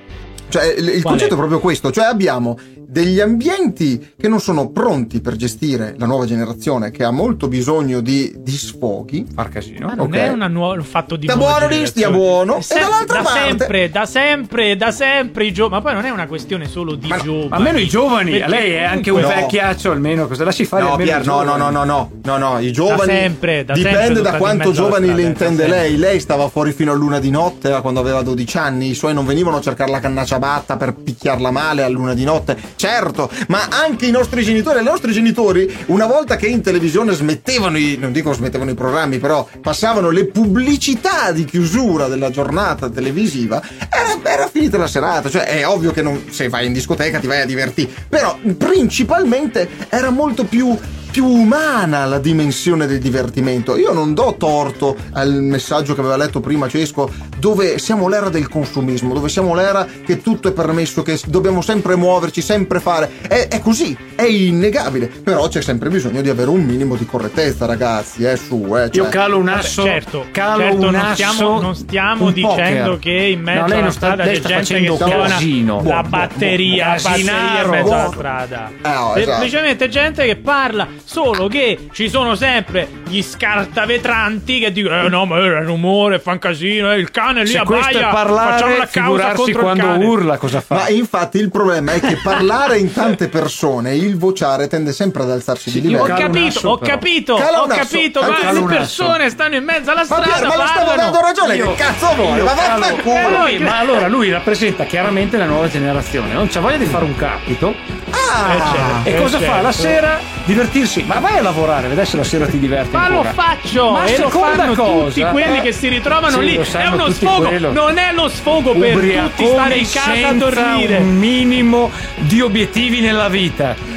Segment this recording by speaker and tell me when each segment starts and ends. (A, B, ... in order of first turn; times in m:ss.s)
0:00.5-0:09.3 A
0:01.0-0:01.4 B
0:09.4-0:10.0 C
0:09.9-0:10.4 A
0:10.0-0:19.5 B
0:11.3-0:13.7 A
0:17.5-0:21.8 C
0:19.2-0:19.6 A
0:20.8-1:09.2 A
0:22.9-0:25.9 B
1:08.9-1:13.0 C
1:09.5-1:30.2 B
1:13.5-1:18.2 C
1:15.0-1:16.6 A
1:17.8-1:18.2 A
1:18.8-1:19.5 A
1:27.5-1:30.9 C
1:30.7-1:36.2 A
1:35.7-1:37.0 C
1:35.9-1:41.2 B
1:37.4-1:38.7 A
1:38.2-1:39.2 C
1:40.1-1:43.5 A
1:41.4-1:47.8 C
1:43.0-1:43.9 B
1:48.1-1:49.1 A
1:48.4-1:50.0 B
1:49.0-1:55.7 C
1:52.9-2:01.1 B
1:56.3-1:57.8 C
1:58.7-2:03.8 C